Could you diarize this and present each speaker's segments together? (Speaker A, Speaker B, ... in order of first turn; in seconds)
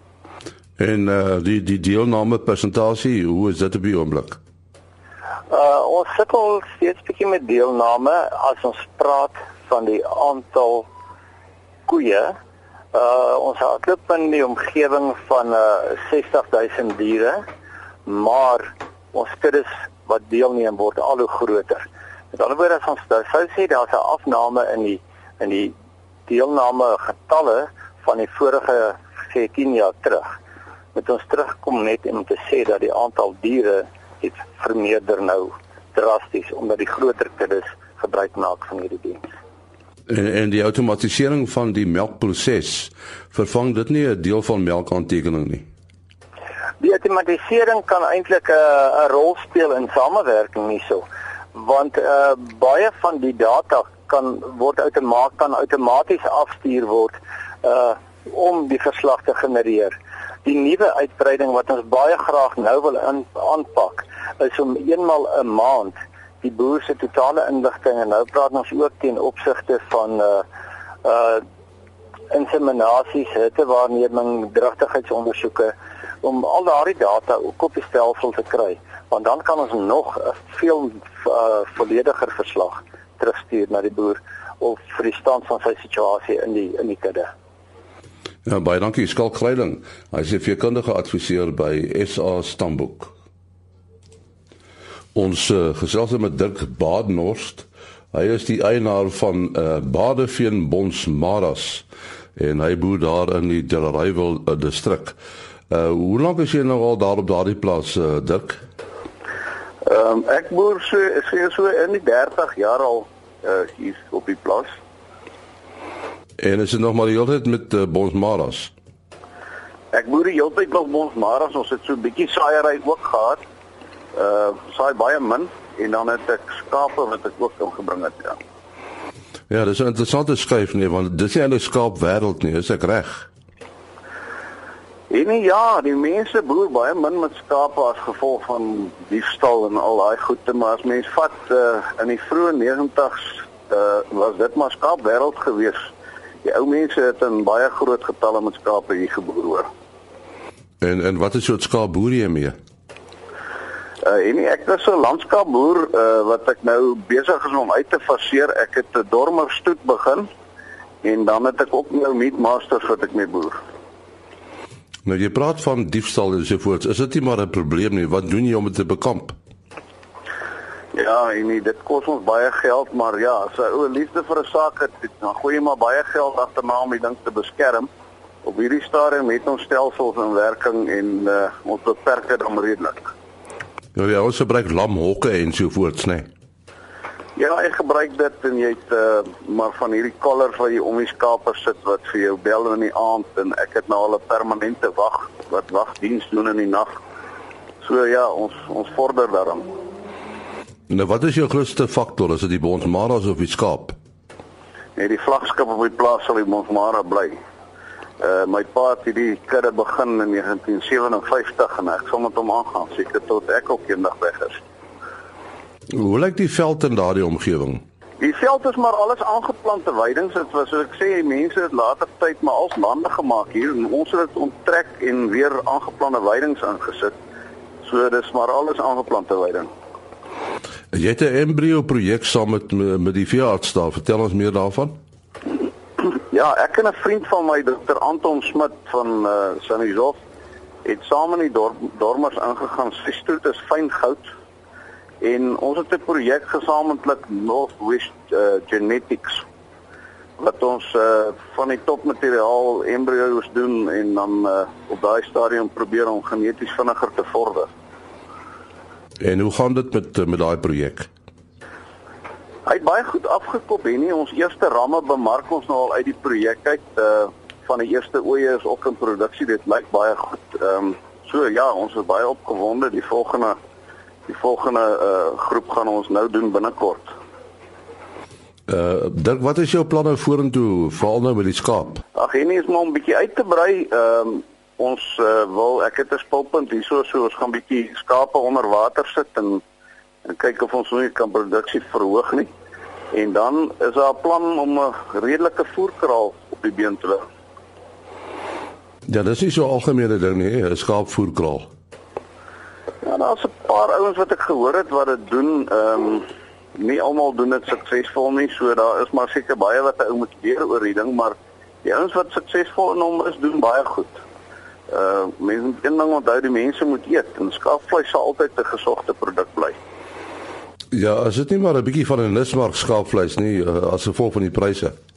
Speaker A: 0.8-4.4, 40.1-45.6, 88.4-93.1, 95.1-101.8, 102.3-105.2, 105.7-108.6, 116.4-118.7, 129.5-133.3, 150.8-152.6, 165.1-169.3, 183.9-186.3, 200.9-203.9, 215.9-217.8, 230.9-235.0, 259.2-261.1, 278.7-282.0, 299.1-301.7, 320.9-324.9
Speaker B: 5.5-10.9, 11.9-12.3, 12.9-17.4, 18.0-25.7, 26.3-30.4, 30.9-39.2, 46.8-70.4, 71.0-71.4, 72.3-87.3
Speaker C: 109.8-114.7, 119.9-123.4, 124.1-128.4, 135.1-145.9, 146.4-149.7, 154.0-160.3, 161.0-163.6, 170.9-177.9, 178.4-183.1, 187.3-197.0, 197.8-199.7, 204.9-207.3, 208.2-214.6, 218.2-227.1, 227.8-229.7, 236.0-240.2, 240.8-244.3, 245.2-249.4, 250.4-257.7, 262.6-273.5, 274.3-277.1, 282.1-289.6, 290.2-292.5, 293.1-297.2, 303.0-314.2, 314.9-319.8